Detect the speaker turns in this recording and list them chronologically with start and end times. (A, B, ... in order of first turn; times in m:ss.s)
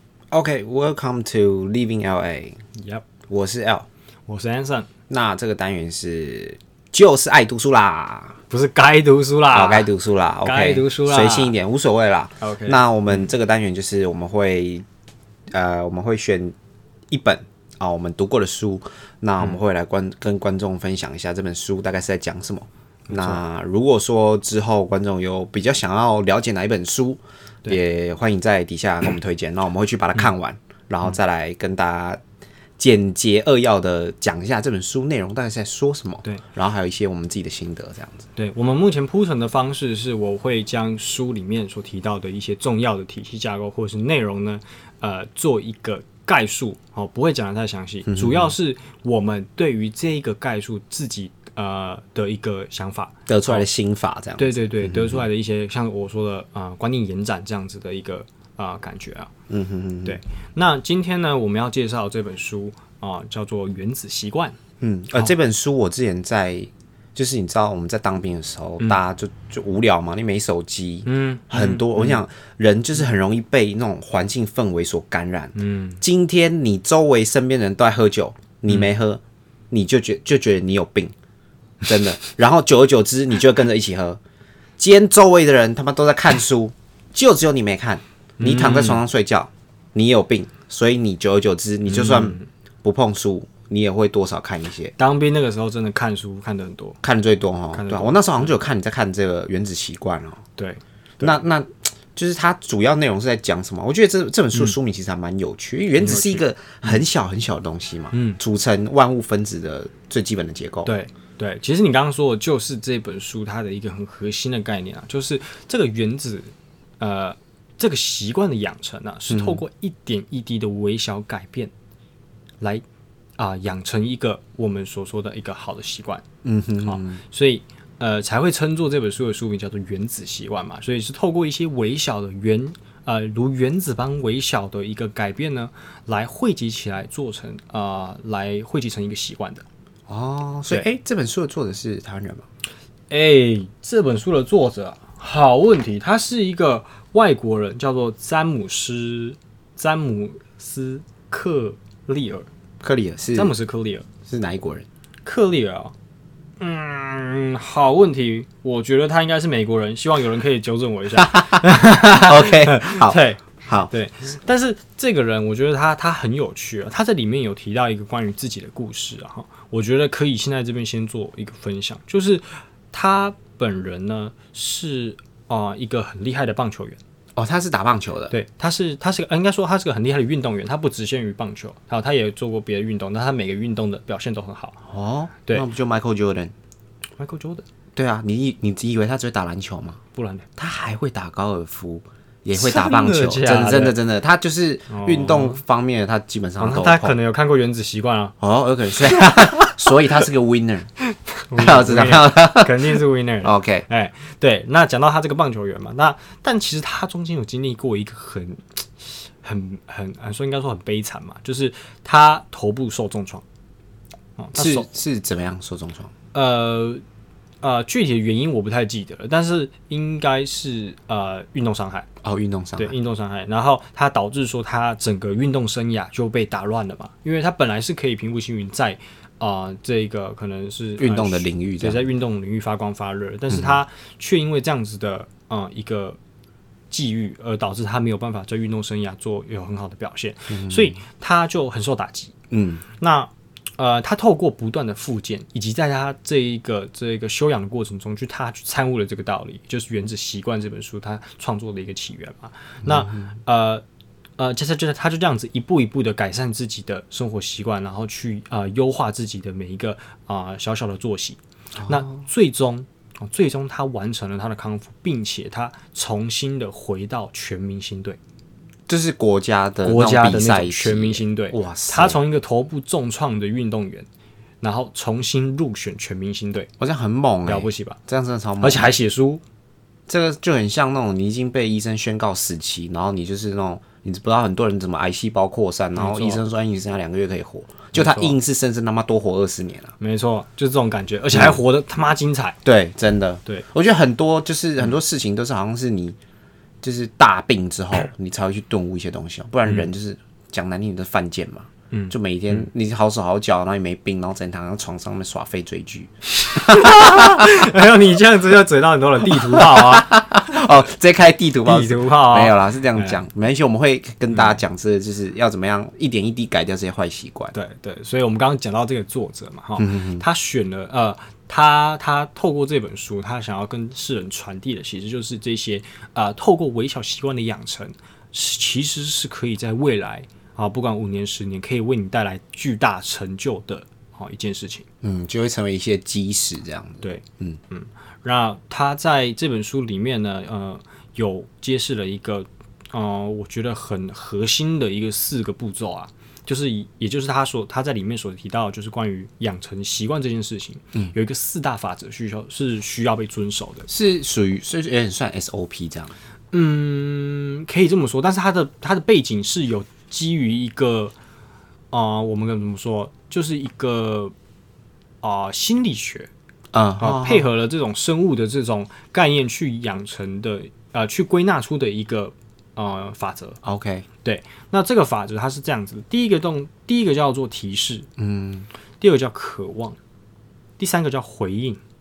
0:00.3-0:02.6 A
0:02.8-0:03.0 B
0:03.3-0:03.9 A
0:04.3-0:04.9 B
0:05.1-0:08.4 A
0:08.5-0:09.9 B
0:09.5-0:14.8 A
0:10.4-0:11.5 B
0:12.4-0:13.3 B
0:15.5-0:16.6 A
0:17.1-0:32.2 A
0:23.1-0:23.4 B
0:32.8-0:38.3 A
0:38.4-0:53.7 B
0:48.1-0:48.5 A
0:53.3-0:55.2 A
0:54.4-0:59.3 B
0:59.5-1:00.2 A
1:00.0-1:04.6 B
1:04.8-1:21.1 A
1:11.1-1:12.2 B
1:15.6-1:16.0 B
1:21.8-1:24.2 A
1:24.8-1:34.9 A
1:28.4-1:29.0 B
1:31.9-1:32.5 B
1:35.0-1:37.0 B
1:37.0-1:40.4 A
1:37.7-1:38.6 B
1:40.6-1:41.4 B
1:41.2-1:50.9 A
1:46.0-1:47.0 B
1:48.1-1:48.4 B
1:50.8-2:01.7 B
1:59.3-1:59.6 A
2:03.4-2:06.2 B
2:06.4-2:07.2 A
2:06.8-2:19.6 B
2:20.1-2:22.4 A
2:23.1-2:32.5 B
2:32.8-2:33.5 A
2:33.4-2:34.1 B
2:34.3-2:34.9 A
2:35.3-2:35.9 B
2:36.6-2:57.0 B
2:41.2-2:43.9 A
2:57.4-2:58.3 A
2:58.3-3:04.8 B
3:04.9-3:06.5 A
3:07.2-3:07.6 B
3:08.0-3:10.0 A
3:10.1-3:10.5 B
3:10.6-3:17.2 A
3:12.6-3:14.0 B
3:14.9-3:15.6 B
3:16.6-3:18.4 B
3:18.4-3:20.9 A
3:21.3-3:33.4 B
3:21.5-3:23.9 A
3:34.4-3:34.9 B
3:34.6-3:36.1 A
3:36.3-3:37.0 B
3:37.6-3:42.1 B
3:42.2-3:43.0 A
3:42.8-3:56.2 B
3:51.0-3:52.1 A
3:53.5-3:53.8 A
3:56.9-4:02.3 B
4:00.5-4:01.0 A
4:02.5-4:02.8 A
4:03.0-4:13.8 B
4:12.8-4:13.3 A
4:14.4-4:28.2 B
4:21.8-4:22.1 A
4:28.9-4:32.2 A
4:29.8-4:34.1 B
4:34.6-4:36.7 B
4:36.8-4:38.9 A
4:37.5-4:38.0 B
4:38.6-4:39.4 B
4:40.1-4:50.0 A
4:46.0-4:46.4 B
4:48.0-4:48.4 B
4:50.0-4:52.6 B
4:51.3-4:51.6 A
4:52.6-4:56.2 A
4:56.8-5:07.6 A
5:01.9-5:02.6 B
5:06.4-5:10.2 B
5:09.3-5:17.5 A
5:11.6-5:13.2 B
5:14.3-5:14.6 B
5:17.5-5:34.8 B
5:19.8-5:20.2 A
5:35.0-5:37.6 A
5:37.0-5:53.9 B
5:53.9-5:56.1 A
5:56.5-6:01.1 B
6:01.9-6:04.3 B
6:05.2-6:06.3 B
6:06.7-6:07.5 A
6:07.0-6:13.6 B
6:13.6-6:14.1 A
6:14.2-6:18.1 B
6:18.2-6:18.7 A
6:19.0-6:20.0 B
6:20.8-6:21.8 B